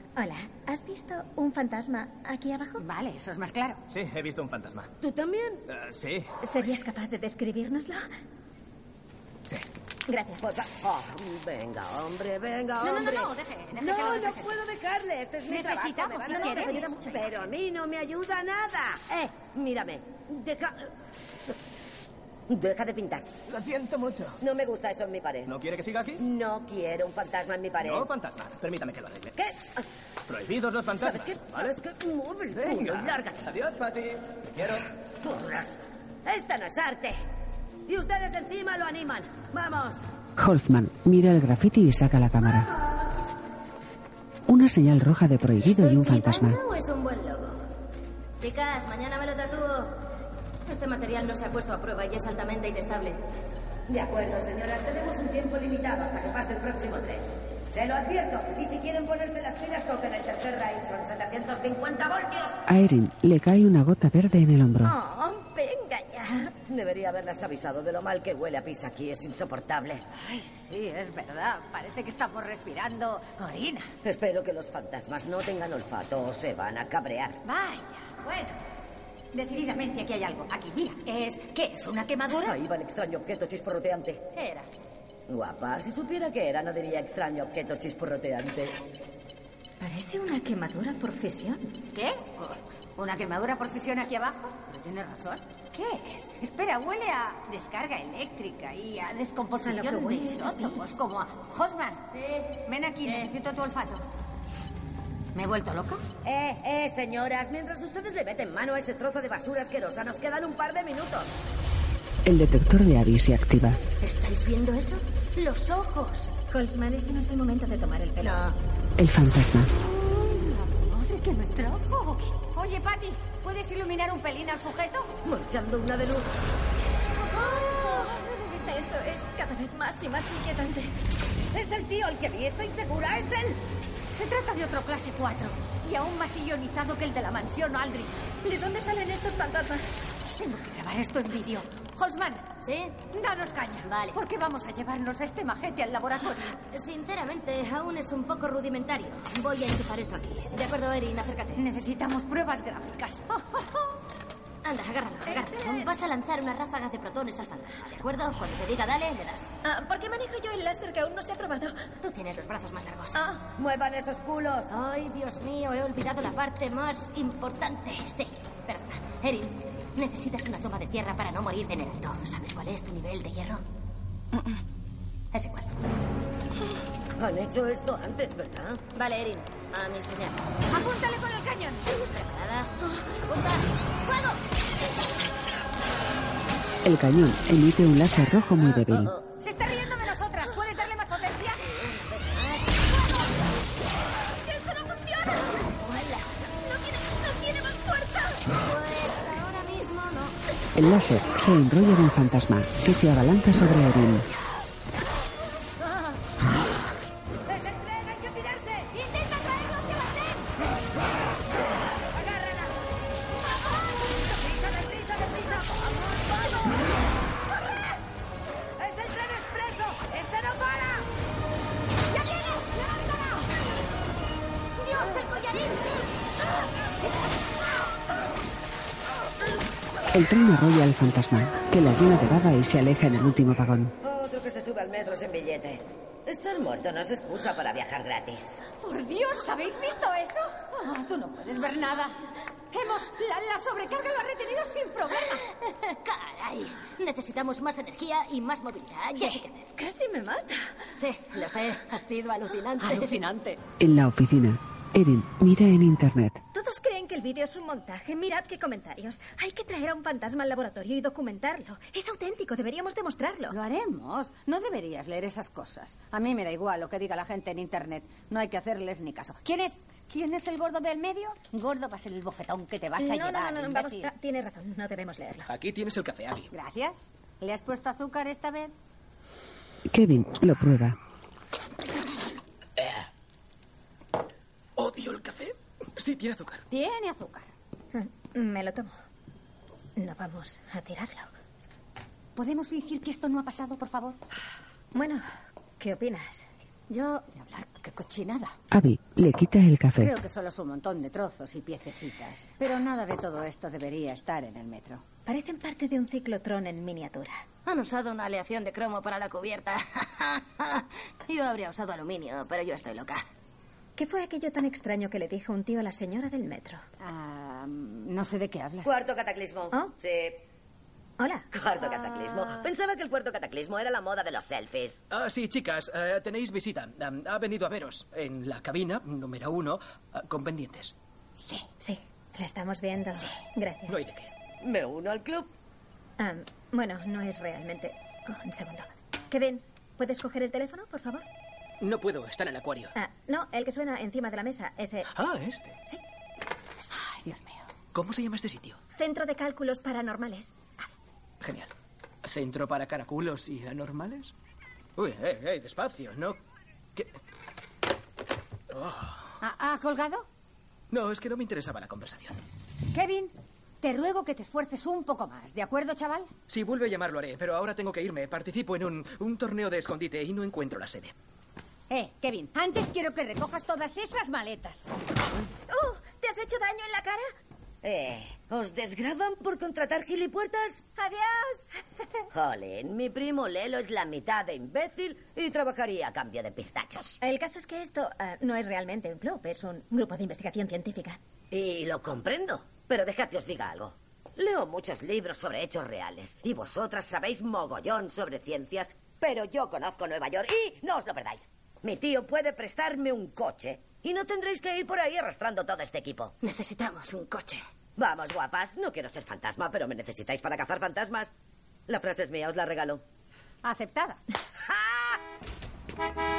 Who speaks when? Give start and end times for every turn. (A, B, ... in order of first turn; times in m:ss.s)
0:00.2-0:02.8 A
0:02.8-0:03.8 B
0:03.9-0:04.9 C
0:05.0-0:05.6 D
0:05.7-0:06.3 C
0:06.4-0:08.1 A
0:10.1-0:10.4 A
0:10.4-0:20.9 D
0:12.8-0:14.6 B
0:15.5-0:17.1 B
0:16.3-0:17.3 A
0:22.5-0:23.3 D
0:23.5-0:24.4 C
0:24.4-0:25.5 D
0:25.5-0:26.2 C
0:26.2-0:28.1 D
0:27.8-0:29.3 C
0:29.4-0:29.8 D
0:30.3-0:31.8 C
0:31.0-0:33.6 D
0:32.6-0:34.8 C
0:35.2-0:37.2 D
0:37.9-0:40.0 D
0:40.4-0:42.7 E
0:44.5-0:46.6 E
0:45.6-0:47.6 F
0:48.4-0:50.0 F
0:50.7-0:53.2 F
0:53.9-1:02.6 D
1:02.7-1:05.0 E
1:04.9-1:06.5 A
1:06.7-1:10.0 D
1:10.2-1:13.9 B
1:14.0-1:17.4 D
1:17.4-1:18.6 B
1:19.3-1:22.6 B
1:22.3-1:24.2 D
1:24.4-1:24.7 F
1:25.3-1:28.8 D
1:29.8-1:31.8 A
1:31.9-1:42.0 B
1:39.6-1:41.0 A
1:42.1-1:43.3 F
1:42.6-1:44.0 B
1:45.3-1:46.0 B
1:46.2-1:51.3 D
1:52.2-1:53.8 E
1:54.0-1:56.3 F
1:56.5-1:58.5 A
1:58.2-1:58.5 F
1:59.0-1:59.7 E
1:59.8-2:05.1 B
2:05.2-2:06.3 D
2:07.3-2:11.0 A
2:11.5-2:13.6 D
2:14.1-2:18.3 B
2:18.4-2:20.0 A
2:20.4-2:22.5 B
2:22.6-2:23.0 F
2:23.1-2:26.6 B
2:23.8-2:24.2 F
2:26.7-2:31.6 F
2:31.6-2:33.9 B
2:34.6-2:39.5 F
2:35.3-2:35.9 A
2:39.6-2:41.8 A
2:42.0-2:43.2 F
2:43.2-2:43.4 A
2:43.6-2:44.7 D
2:44.7-2:53.6 F
2:55.3-2:55.7 F
2:57.2-2:58.8 D
2:59.0-3:00.4 F
3:00.7-3:01.9 B
3:02.0-3:02.7 F
3:03.3-3:04.4 F
3:06.8-3:09.1 E
3:08.6-3:09.2 F
3:09.4-3:11.6 B
3:11.8-3:13.3 F
3:14.4-3:15.6 A
3:15.8-3:16.3 F
3:16.6-3:18.4 A
3:18.5-3:20.4 F
3:20.8-3:24.3 E
3:27.5-3:28.9 D
3:29.2-3:30.0 B
3:32.1-3:32.7 D
3:34.2-3:36.7 D
3:38.8-3:41.0 D
3:42.1-3:43.4 B
3:45.0-3:45.7 F
3:45.0-3:45.2 B
3:50.1-3:53.9 E
3:54.0-3:58.6 D
3:58.8-4:02.2 B
4:02.7-4:05.5 B
4:05.9-4:09.7 F
4:09.2-4:10.7 A
4:11.0-4:13.2 F
4:12.8-4:13.6 B
4:13.8-4:16.4 E
4:16.5-4:23.6 A
4:23.5-4:34.1 B
4:33.0-4:35.5 A
4:35.5-4:36.5 G
4:36.5-4:38.7 B
4:39.9-4:41.0 E
4:42.8-4:43.0 G
4:44.8-4:46.7 G
4:46.7-4:47.5 B
4:47.9-4:48.9 A
4:50.0-4:51.3 A
4:52.4-4:54.2 B
4:54.9-4:55.2 A
4:55.8-4:56.5 A
4:56.9-4:58.6 B
4:58.7-5:00.2 E
5:00.0-5:05.0 B
5:05.3-5:07.4 A
5:07.6-5:13.2 F
5:14.0-5:16.8 A
5:17.0-5:18.9 B
5:18.8-5:20.4 D
5:21.2-5:21.5 A
5:21.5-5:25.0 D
5:25.1-5:30.9 G
5:31.4-5:31.6 B
5:31.8-5:34.1 A
5:33.9-5:34.3 G
5:34.6-5:35.5 D
5:36.2-5:41.3 A
5:41.8-5:42.9 G
5:43.0-5:45.1 A
5:45.1-5:45.8 G
5:46.9-5:47.6 B
5:47.9-5:48.8 G
5:49.0-5:50.6 A
5:51.4-5:51.7 G
5:52.2-5:54.3 G
5:55.0-5:56.4 G
5:58.7-5:59.3 G
5:59.4-6:00.3 B
6:00.9-6:02.4 G
6:02.9-6:06.3 B
6:06.5-6:11.1 G
6:11.9-6:14.9 B
6:15.7-6:17.3 A
6:17.8-6:20.8 D
6:21.0-6:21.7 A
6:22.3-6:27.2 D
6:27.2-6:31.2 A
6:31.5-6:46.3 D
6:46.4-6:47.6 F
6:48.0-6:51.3 D
6:51.9-6:53.0 D
6:53.6-6:54.2 B
6:54.7-6:55.2 D